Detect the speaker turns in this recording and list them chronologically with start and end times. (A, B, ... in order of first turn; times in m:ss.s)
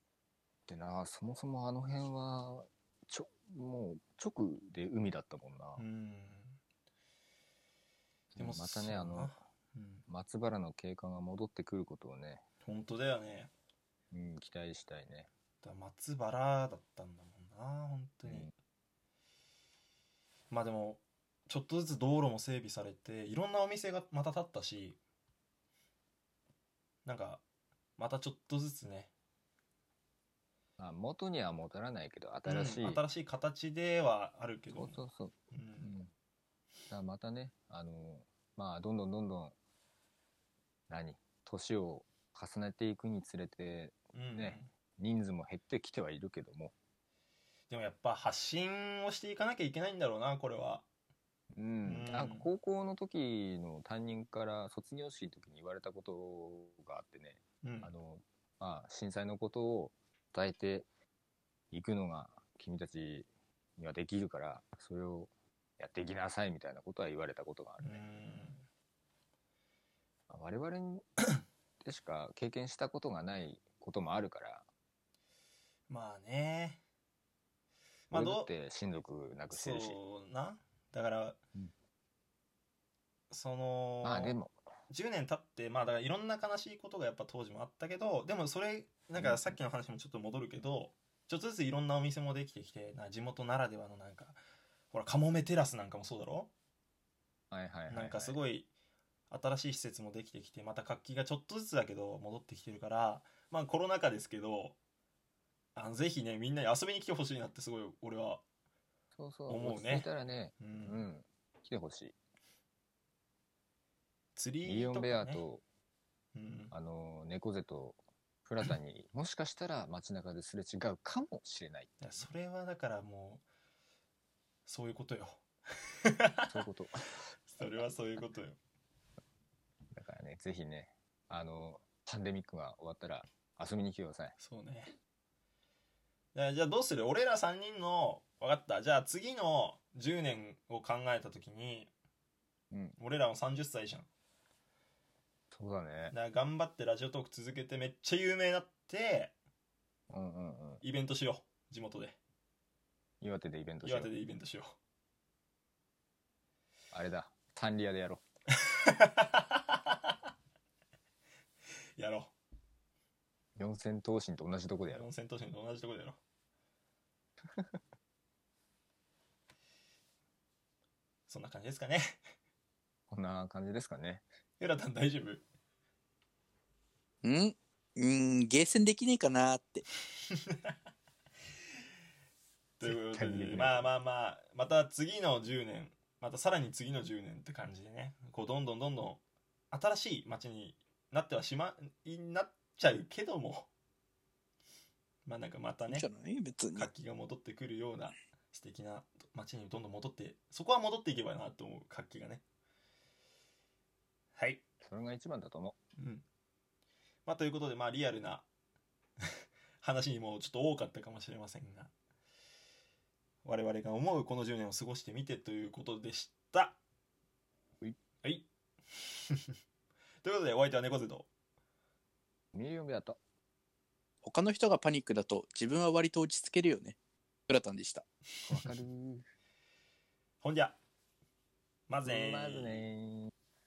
0:00.7-0:05.8 A
0:05.8-0:06.6 B
0:08.4-0:09.3 A
0:08.4-0:10.0 B
0:10.1-0:12.4 A
0:12.6-0:13.5 B
0:14.1-0:15.3 A
0:15.6-0:18.5 B
0:18.3-0:18.5 A
0:20.5-0:25.0 B
0:27.0-0:27.4 B
0:28.0-0:29.1 B
0:30.8-0:33.1 A
0:32.4-0:36.0 B
0:34.7-0:36.1 A
0:36.9-0:39.6 A
0:40.9-0:46.7 A
0:44.1-0:44.7 B
0:47.7-0:50.9 B
0:51.5-1:00.9 A
0:51.8-0:52.5 B
0:57.6-0:57.9 B
1:01.7-1:08.2 A
1:07.8-1:08.6 B
1:10.3-1:11.1 A
1:11.8-1:14.6 A
1:15.9-1:16.8 B
1:18.1-1:18.5 B
1:18.1-1:20.0 A
1:19.5-1:21.4 B
1:23.3-1:24.4 B
1:24.0-1:24.6 A
1:24.9-1:34.4 B
1:29.2-1:29.6 A
1:34.9-1:36.5 B
1:37.5-1:38.4 A
1:37.9-1:38.7 B
1:39.3-1:44.8 B
1:45.8-1:48.4 B
1:49.1-1:52.2 A
1:49.5-1:51.1 B
1:54.4-1:55.4 B
1:54.6-1:55.6 A
1:56.4-1:56.7 B
1:56.7-2:02.1 A
2:02.0-2:03.4 B
2:04.7-2:05.4 B
2:06.0-2:06.6 B
2:06.5-2:07.9 A
2:07.5-2:08.6 B
2:09.9-2:14.4 A
2:14.4-2:14.9 B
2:16.3-2:21.9 B
2:22.7-2:23.0 A
2:23.0-2:24.1 B
2:25.5-2:26.2 A
2:26.1-2:29.3 B
2:30.1-2:30.8 A
2:30.8-2:32.2 B
2:33.2-2:34.2 A
2:33.8-2:34.8 B
2:36.9-2:38.2 A
2:38.7-2:39.9 B
2:42.0-2:42.3 B
2:43.6-2:45.1 A
2:44.9-2:46.2 B
2:51.3-2:52.2 B
2:53.1-2:54.2 A
2:54.6-2:55.4 B
2:57.2-2:59.8 C
3:00.3-3:00.7 B
3:02.8-3:13.7 B
3:02.8-3:03.9 A
3:15.2-3:16.1 B
3:15.9-3:16.9 C
3:16.7-3:22.4 B
3:24.4-3:24.6 B
3:24.8-3:25.8 A
3:26.0-3:26.2 B
3:27.3-3:28.5 B
3:29.8-3:31.9 B
3:33.4-3:36.8 B
3:38.2-3:39.5 B
3:40.2-3:41.3 B
3:42.5-3:43.2 A
3:44.2-3:47.0 C
3:47.5-3:48.1 C
3:48.5-3:49.3 A
3:50.4-3:50.8 B
3:51.9-3:52.9 B
3:52.0-3:53.3 A